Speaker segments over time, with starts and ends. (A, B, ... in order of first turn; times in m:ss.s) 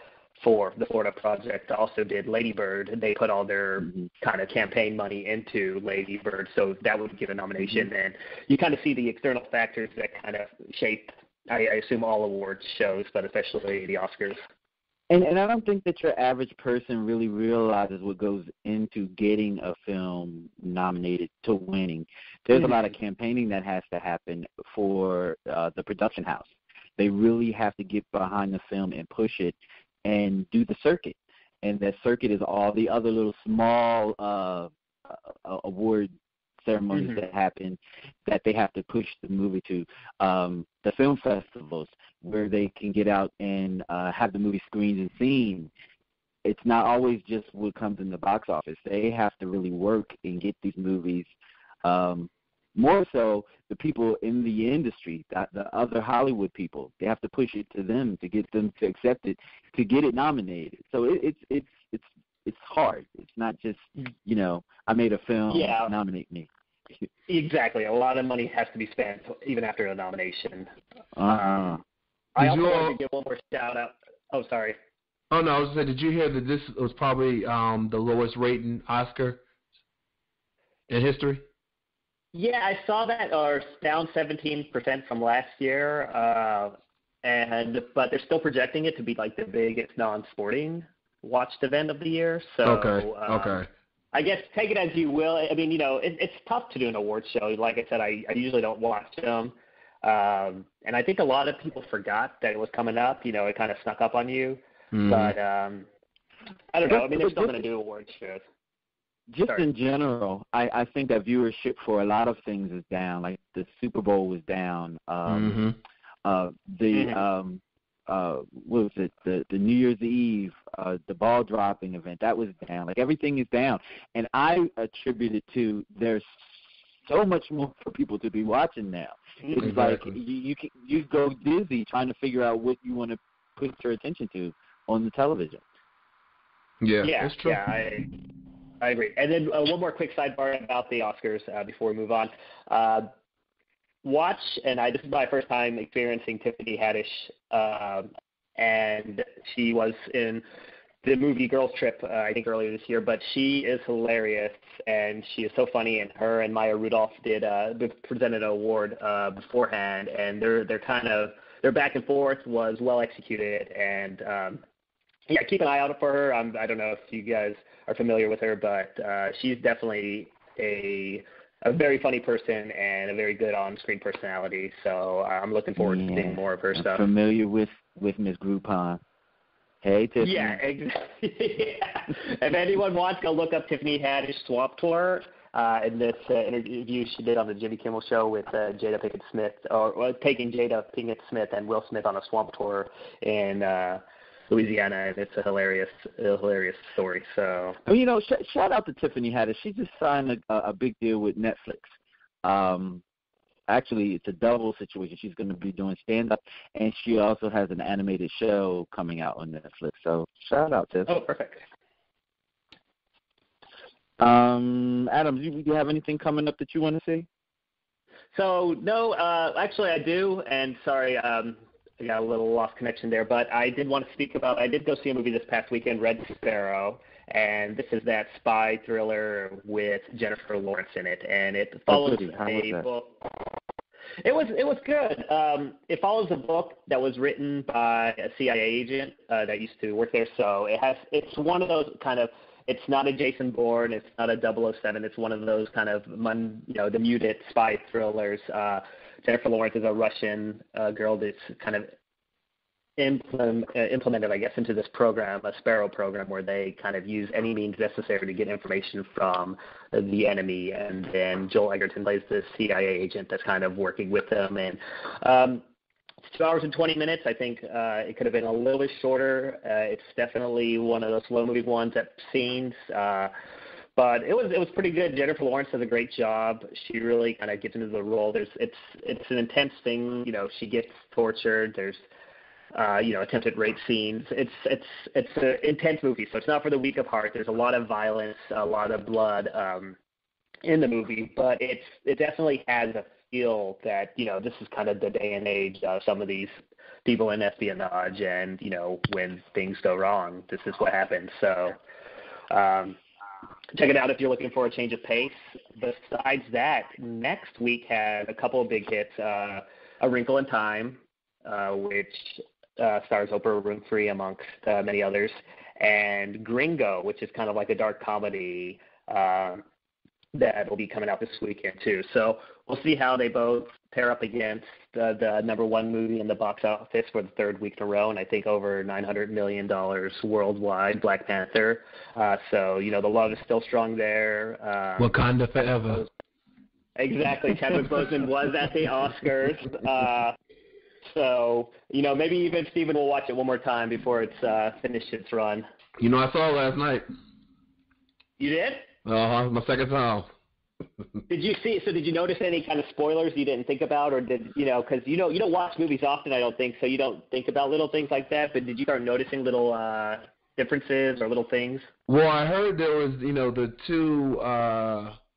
0:00.4-0:14.4 A
0:03.8-0:04.1 B
0:07.6-0:07.9 B
0:15.1-0:45.7 B
0:22.5-0:22.9 A
0:36.9-0:37.2 A
0:46.4-0:51.3 B
0:51.8-1:07.0 B
1:05.5-1:05.9 A
1:07.3-1:10.7 A
1:11.2-1:11.8 B
1:11.3-1:11.7 A
1:12.4-1:14.8 A
1:12.4-1:12.9 C
1:15.3-1:19.4 C
1:20.9-1:21.4 C
1:22.3-1:33.6 A
1:32.6-1:33.7 C
1:34.1-1:45.9 A
1:44.9-1:45.4 C
1:46.7-1:48.4 A
1:46.8-1:47.6 B
1:49.3-1:55.6 B
1:55.3-1:55.8 C
1:56.2-2:06.4 B
1:56.9-1:57.2 A
2:07.0-2:15.6 B
2:09.6-2:10.2 C
2:16.8-2:17.6 C
2:17.0-2:18.1 A
2:18.8-2:23.1 A
2:24.0-2:30.4 A
2:31.0-2:44.6 A
2:45.3-2:57.1 A
2:55.8-2:59.0 B
2:59.8-3:00.6 B
3:00.2-3:17.8 A
3:17.8-3:23.0 B
3:23.7-3:31.2 B
3:31.1-3:31.6 A
3:34.2-3:37.3 B
3:38.3-3:53.1 A
3:51.9-3:52.9 B
3:54.2-4:11.9 A
4:13.0-4:25.6 A
4:26.3-4:33.3 A
4:34.0-4:42.0 A
4:42.7-4:50.0 A
4:50.6-5:01.8 A
5:02.5-5:03.0 A
5:03.7-5:19.6 A
5:20.3-5:36.0 A
5:35.0-5:36.0 C
5:37.0-5:40.3 A
5:41.0-5:45.6 A
5:46.0-5:47.0 C
5:48.4-5:48.9 A
5:49.0-5:50.3 C
5:51.3-6:01.9 A
6:02.1-6:05.2 C